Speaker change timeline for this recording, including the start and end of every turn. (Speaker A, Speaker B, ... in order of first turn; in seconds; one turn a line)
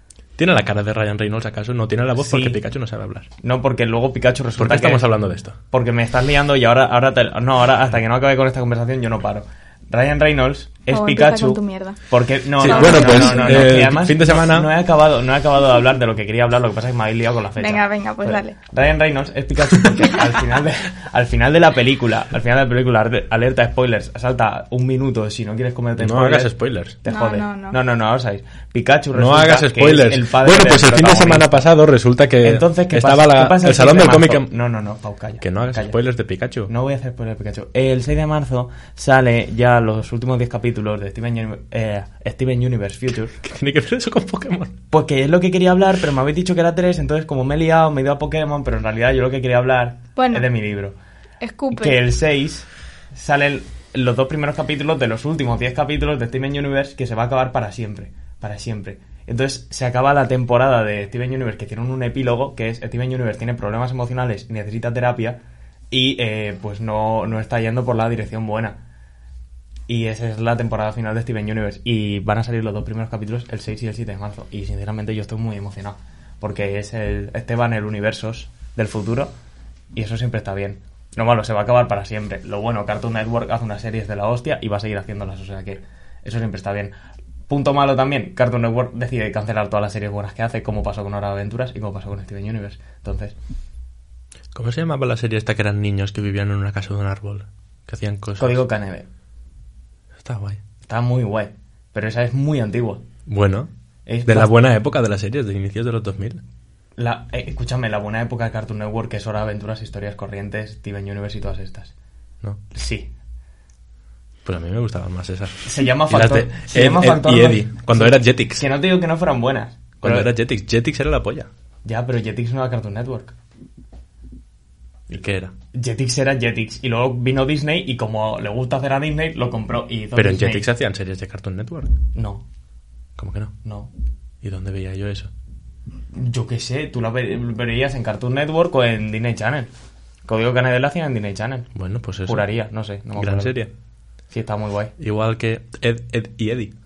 Speaker A: 0.4-3.3
Speaker B: 2.2-2.6
Speaker B: 3.4-5.0
Speaker A: 4.5-5.6
Speaker B: 5.7-26.5
Speaker C: 10.9-12.0
Speaker C: 12.6-13.8
Speaker A: 12.6-14.7
Speaker C: 17.6-18.6
Speaker A: 26.0-27.0
Speaker B: 27.0-31.6
Speaker C: 27.1-27.8
Speaker A: 29.1-34.5
Speaker B: 32.4-36.0
Speaker A: 35.4-36.7
Speaker B: 36.7-43.4
Speaker A: 43.4-44.8
Speaker B: 44.9-51.0
Speaker C: 50.1-50.5
Speaker C: 51.4-52.0
Speaker B: 51.7-68.8
Speaker B: 69.9-79.3
Speaker B: 79.9-86.9
Speaker B: 87.5-93.3
Speaker A: 94.5-98.6
Speaker B: 98.4-99.0
Speaker A: 100.2-100.6
Speaker B: 100.8-103.0
Speaker A: 103.3-103.7
Speaker B: 104.0-104.5
Speaker A: 104.2-106.4
Speaker B: 107.0-111.9
Speaker B: 112.7-113.1
Speaker A: 114.4-118.6
Speaker B: 115.6-120.3
Speaker A: 120.0-121.5
Speaker B: 121.8-123.3
Speaker A: 125.1-125.5
Speaker B: 125.7-130.6
Speaker A: 130.1-131.9
Speaker B: 132.1-132.4
Speaker A: 133.2-133.5
Speaker B: 133.6-133.9
Speaker A: 134.4-135.3
Speaker B: 136.1-139.7
Speaker B: 140.2-141.7
Speaker A: 141.7-142.5
Speaker B: 142.2-143.6
Speaker A: 143.2-143.7
Speaker B: 144.3-144.9
Speaker A: 145.0-146.7